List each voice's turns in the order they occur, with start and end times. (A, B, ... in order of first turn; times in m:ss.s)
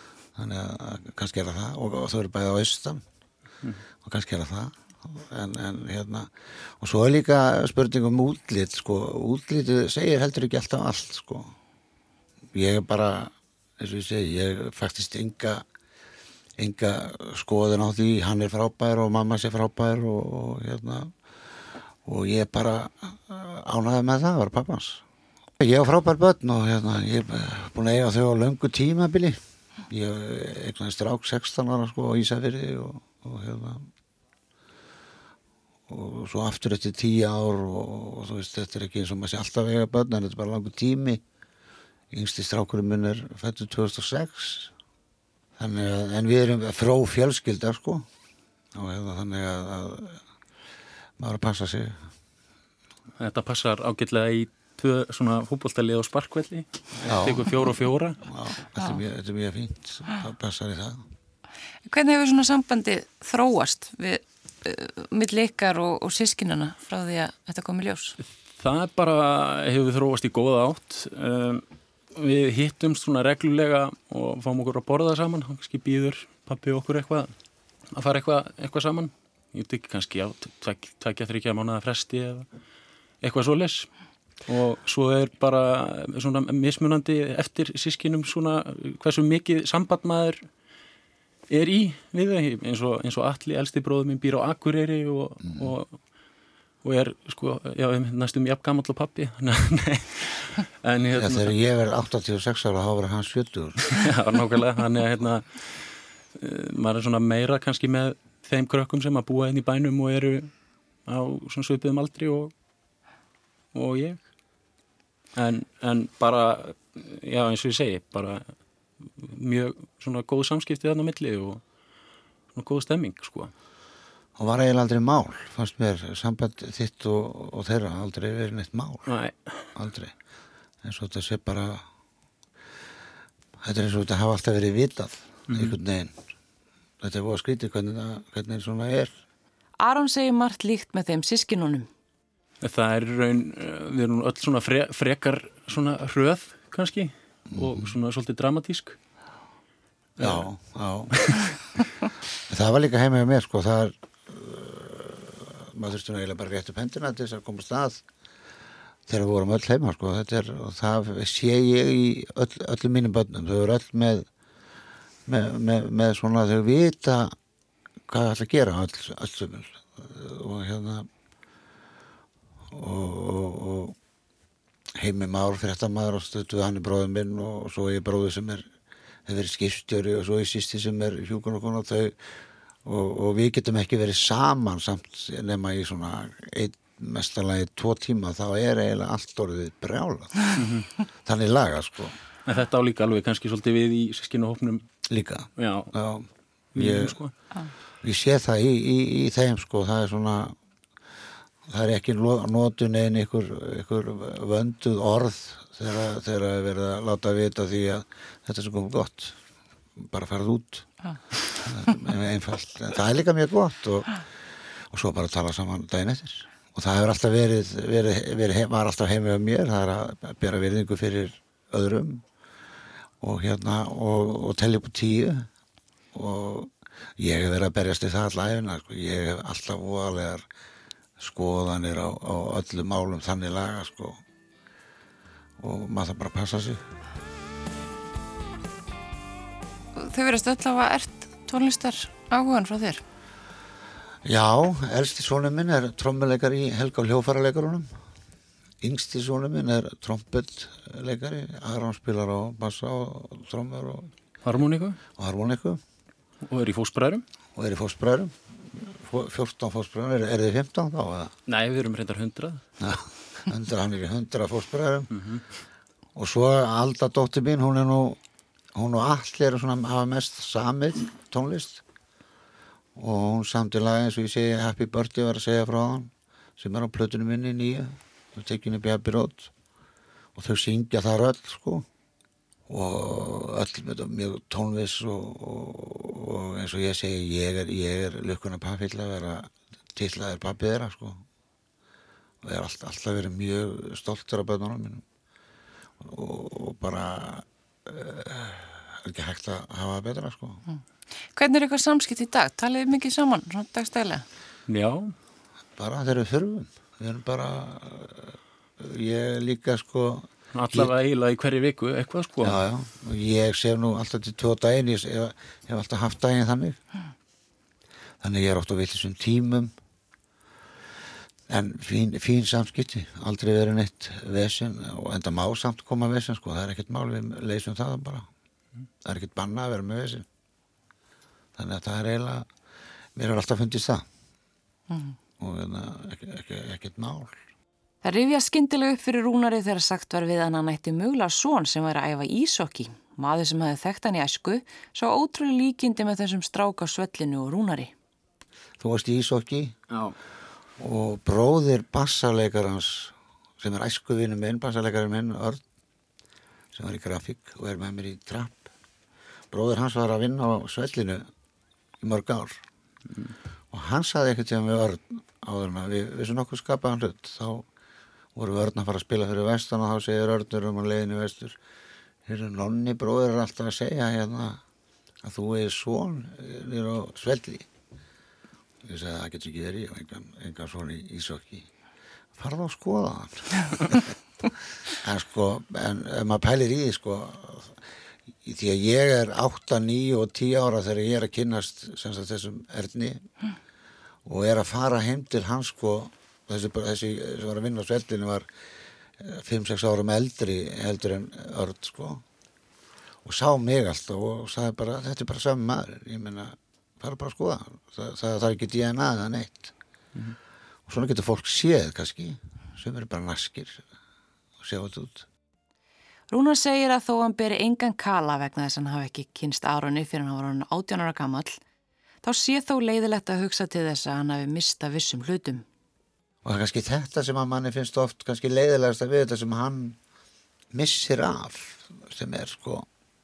0:00.4-0:03.0 A
0:04.0-0:11.6 A
0:12.5-0:15.6 A
0:16.6-0:21.1 A
0:22.0-0:25.0 A
0:25.6-0:33.9 A
0:35.9-0:41.2 A
0:42.1-0:44.7 A
0:45.6-0:48.1 A
0:48.7-0:50.2 A
0:51.2-0:52.0 A
0:53.2-0:58.2 B
0:57.1-0:57.7 A
0:58.2-1:01.0 A
1:01.9-1:08.2 C
1:08.5-1:11.6 B
1:12.2-1:17.3 B
1:17.9-1:22.5 B
1:23.2-1:23.9 B
1:24.5-1:30.4 B
1:31.5-1:36.0 B
1:36.8-1:41.6 B
1:41.2-1:44.0 A
1:43.9-1:50.5 B
1:51.1-1:52.5 B
1:53.7-1:54.2 B
1:55.4-1:58.5 B
1:59.2-2:01.6 B
2:02.5-2:03.5 B
2:04.4-2:09.1 A
2:09.1-2:09.6 B
2:09.8-2:10.1 A
2:10.8-2:11.8 A
2:13.6-2:16.2 A
2:15.5-2:15.8 B
2:17.0-2:19.1 A
2:19.8-2:21.9 C
2:22.6-2:29.0 B
2:27.6-2:27.9 A
2:30.2-2:30.5 B
2:30.2-2:31.5 A
2:31.1-2:31.5 B
2:32.5-2:38.0 A
2:39.1-2:44.3 A
2:45.3-2:47.3 A
2:48.1-2:51.1 A
2:52.7-2:54.0 A
2:55.0-2:58.7 A
2:59.3-3:02.2 A
3:02.8-3:10.6 A
3:10.6-3:10.9 B
3:11.2-3:12.2 A
3:12.5-3:14.8 B
3:15.1-3:17.2 A
3:15.6-3:15.9 B
3:16.8-3:17.3 B
3:18.0-3:20.6 A
3:21.7-3:29.4 A
3:30.0-3:34.2 A
3:34.9-3:42.2 A
3:43.2-3:45.5 A
3:46.1-3:50.4 A
3:51.2-3:54.2 A
3:55.6-3:56.8 A
4:00.0-4:03.0 C
4:04.2-4:07.9 A
4:08.8-4:14.1 A
4:14.4-4:15.0 B
4:15.2-4:15.8 A
4:16.5-4:17.2 B
4:17.6-4:21.3 A
4:21.5-4:22.6 B
4:22.8-4:25.1 A
4:25.1-4:25.4 B
4:26.2-4:28.2 A
4:28.8-4:31.8 A
4:33.0-4:39.5 A
4:40.4-4:41.9 A
4:42.7-4:51.2 A
4:52.4-4:55.0 A
4:56.0-5:00.6 A
5:01.4-5:04.2 C
5:04.7-5:05.2 B
5:05.8-5:10.9 A
5:10.5-5:12.6 B
5:12.4-5:16.8 A
5:18.2-5:19.7 A
5:21.5-5:28.3 A
5:29.0-5:30.3 A
5:31.6-5:32.5 A
5:33.2-5:34.1 A
5:34.9-5:35.2 C
5:35.4-5:37.4 A
5:38.0-5:47.9 C
5:48.8-5:49.8 A
5:50.8-5:55.6 A
5:56.7-5:58.7 A
5:59.5-6:01.3 A
6:02.0-6:02.6 A
6:03.7-6:07.7 A
6:08.4-6:11.6 A
6:12.3-6:14.6 A
6:15.2-6:17.7 A
6:18.8-6:21.7 A
6:22.4-6:24.2 A
6:24.9-6:27.8 A
6:28.4-6:33.2 A
6:34.2-6:38.5 A
6:39.2-6:42.2 A
6:43.2-6:49.7 A
6:50.9-6:53.8 A
6:54.6-6:55.3 A
6:56.3-7:01.6 C
7:02.2-7:05.6 C
7:06.4-7:10.0 A
7:10.7-7:12.9 A